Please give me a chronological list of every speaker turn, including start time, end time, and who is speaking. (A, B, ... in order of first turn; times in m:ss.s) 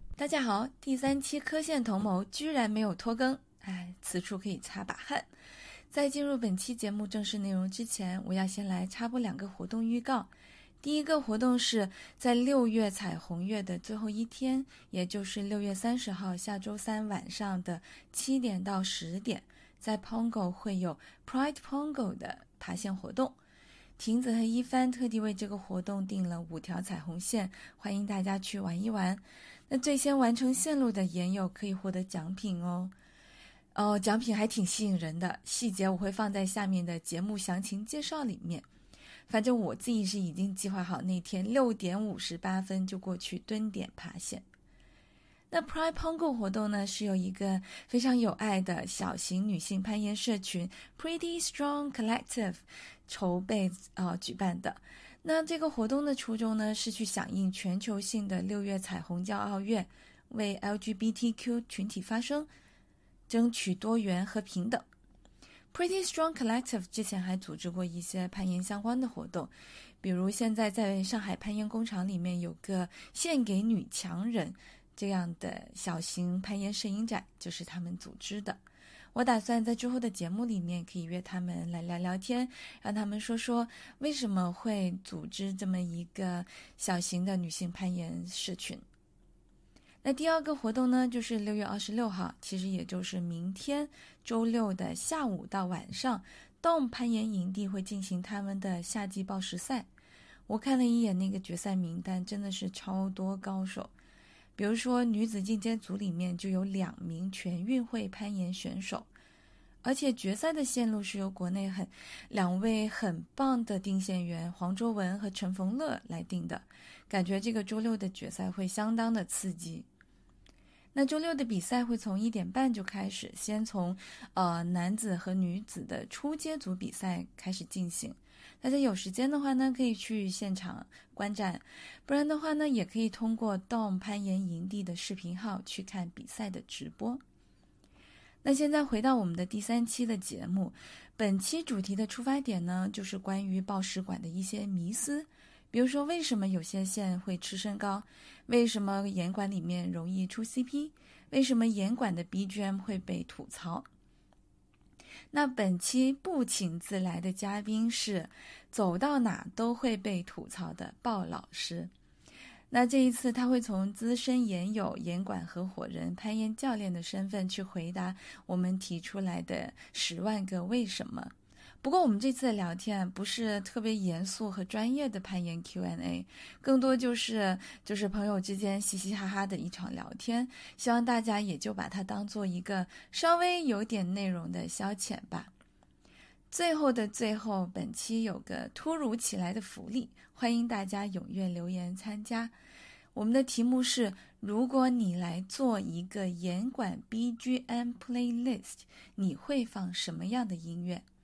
0:00.2-0:05.3 A
0:05.9-0:10.3 A
0:10.8-0:23.4 A
0:24.0-0:32.9 A
0:33.8-0:38.7 A
0:39.3-0:44.4 A
0:45.5-1:02.5 A
1:03.3-1:04.9 A
1:05.7-1:18.6 A
1:19.1-1:28.8 A
1:30.0-1:39.9 A
1:40.5-1:43.9 A
1:44.6-1:49.1 A
1:49.8-1:59.9 A
2:00.9-2:17.2 A
2:18.4-2:33.9 A
2:35.3-2:41.9 A
2:42.7-3:05.5 A
3:06.5-3:12.5 A
3:13.2-3:21.0 A